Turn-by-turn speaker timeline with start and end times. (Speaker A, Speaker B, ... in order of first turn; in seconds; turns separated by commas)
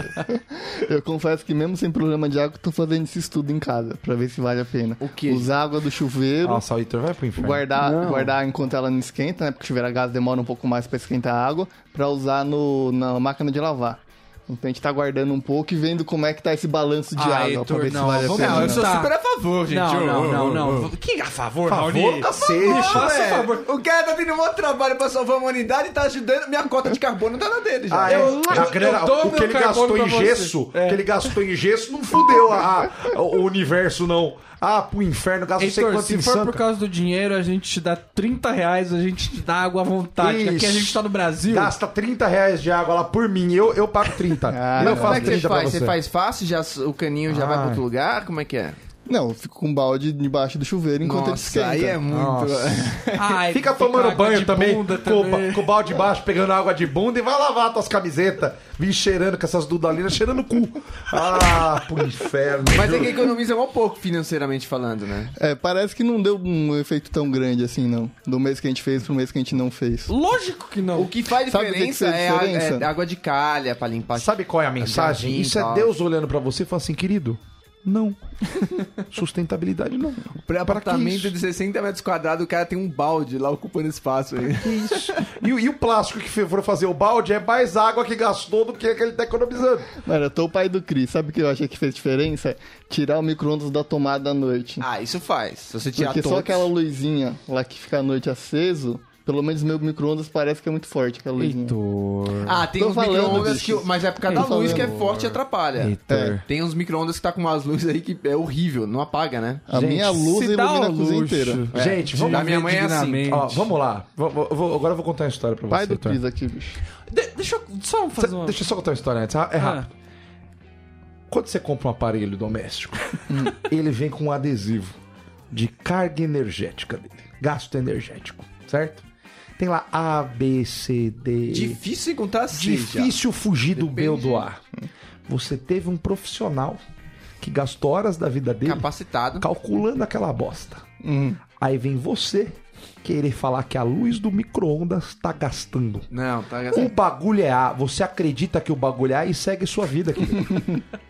Speaker A: 0.3-6.6, Speaker B: 5.0-5.5, Speaker C: 6.4-7.7, Speaker A: 7.4-18.9, Speaker B: 7.8-8.3, Speaker D: 17.1-19.1, Speaker B: 18.3-20.9, Speaker D: 19.7-23.6, Speaker C: 21.7-23.1, Speaker B: 22.5-28.6, Speaker C: 27.9-36.6, Speaker D: 28.1-31.0, Speaker D: 35.6-41.7, Speaker C: 40.2-46.0, Speaker A: 44.5-45.4, Speaker B: 44.8-48.8, Speaker C: 47.3-47.8, Speaker A: 49.0-52.0, Speaker B: 51.0-53.4, Speaker C: 52.1-53.0, Speaker D: 53.1-55.8, Speaker C: 53.5-63.3, Speaker B: 62.7-65.3, Speaker A: 65.4-70.1, Speaker D: 70.1-71.1, Speaker B: 70.9-75.9, Speaker A: 71.5-72.9, Speaker C: 74.1-81.3, Speaker B: 80.5-85.3, Speaker C: 84.6-89.9, Speaker A: 90.0-94.8, Speaker B: 94.8-96.7, Speaker A: 95.9-101.8, Speaker D: 101.4-102.6, Speaker B: 102.4-109.6, Speaker A: 102.8-105.0, Speaker D: 104.3-105.4, Speaker C: 105.8-106.4, Speaker A: 106.1-106.4, Speaker A: 109.7-111.7, Speaker C: 109.7-110.3, Speaker D: 110.2-113.6, Speaker B: 111.7-113.5, Speaker C: 111.7-112.5, Speaker C: 113.2-116.2, Speaker A: 115.7-116.8, Speaker D: 117.1-118.7, Speaker C: 118.2-119.9, Speaker D: 119.6-119.9, Speaker C: 121.3-125.0, Speaker A: 123.3-123.5, Speaker C: 125.5-129.0, Speaker C: 129.6-131.8, Speaker B: 131.5-133.1, Speaker C: 132.5-134.6, Speaker B: 133.7-134.4, Speaker C: 135.3-136.8, Speaker C: 137.4-138.9, Speaker B: 138.6-139.5, Speaker C: 139.4-140.8, Speaker A: 141.0-141.4, Speaker C: 141.6-146.1, Speaker B: 146.1-146.9, Speaker C: 146.7-150.6